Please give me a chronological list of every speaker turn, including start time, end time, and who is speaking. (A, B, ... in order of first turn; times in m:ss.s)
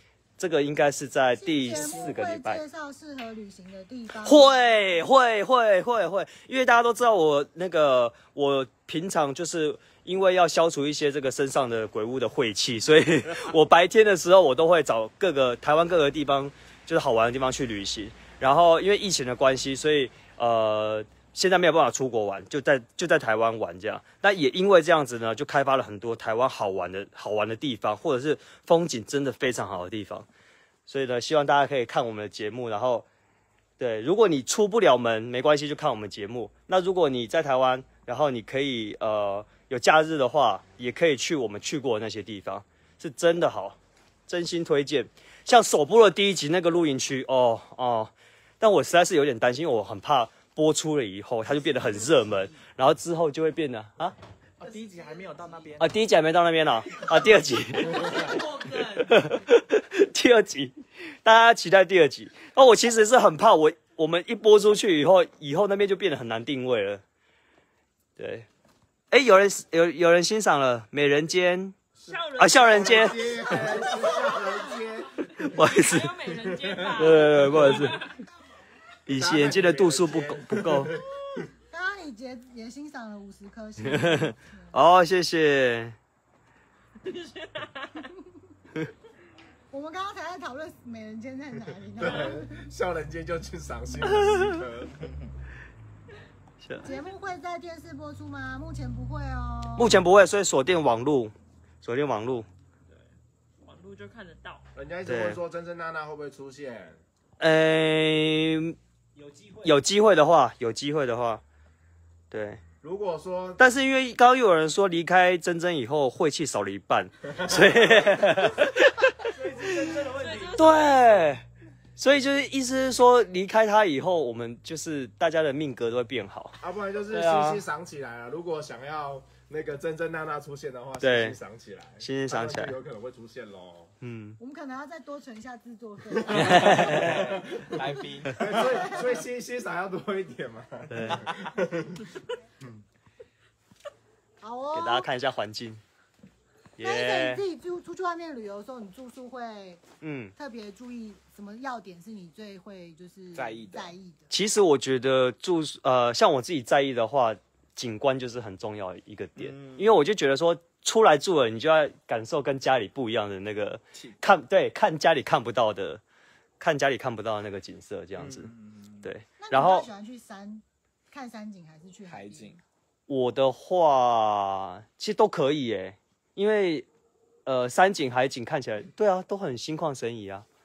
0:00.4-0:02.6 A
0:01.4-0:04.6 B
0:04.2-0:30.3 A
0:30.9-0:33.0 A
0:33.8-0:43.8 A
0:44.3-0:54.1 A
0:54.6-0:55.9 C
0:55.8-1:07.0 A
0:57.8-0:59.1 D
1:08.2-1:08.4 A
1:09.1-1:11.7 A
1:12.0-1:15.2 E
1:12.0-1:13.4 D
1:12.4-1:13.8 A
1:13.4-1:14.8 B
1:15.4-1:16.1 A
1:15.6-1:18.1 D
1:16.4-1:17.4 E
1:17.0-1:18.0 A
1:19.0-1:20.9 A
1:19.1-1:21.0 E
1:21.7-1:24.7 B
1:23.8-1:25.9 A
1:27.0-1:28.1 D
1:29.7-1:32.6 B
1:32.0-1:35.1 E
1:36.6-1:36.9 A
1:36.8-1:40.0 B
1:39.8-1:42.5 A
1:42.9-1:44.6 D
1:44.7-1:47.0 E
1:45.0-1:45.4 A
1:47.4-1:48.8 A
1:49.6-1:51.4 A
1:52.3-1:52.6 A
1:52.8-1:53.6 E
1:53.6-2:01.4 A
1:59.8-2:01.0 D
2:02.0-2:06.6 A
2:06.6-2:13.9 E
2:07.1-2:07.6 A
2:11.0-2:11.4 A
2:12.0-2:12.8 A
2:14.0-2:14.4 A
2:14.4-2:17.1 B
2:16.3-2:17.0 A
2:16.3-2:19.0 C
2:17.0-2:17.6 E
2:18.4-2:21.9 E
2:18.4-2:19.2 B
2:20.9-2:21.2 A
2:24.4-2:25.1 B
2:24.7-2:25.8 A
2:26.8-2:27.4 A
2:26.8-2:29.8 B
2:30.0-2:30.3 A
2:30.3-2:34.3 B
2:33.3-2:33.9 C
2:34.3-2:46.0 A
2:39.4-2:40.0 C
2:46.6-2:48.5 A
2:48.2-2:49.1 C
2:49.0-2:49.9 A
2:49.4-2:52.5 B
2:52.0-2:52.6 C
2:53.1-2:56.9 A
2:57.4-3:00.4 A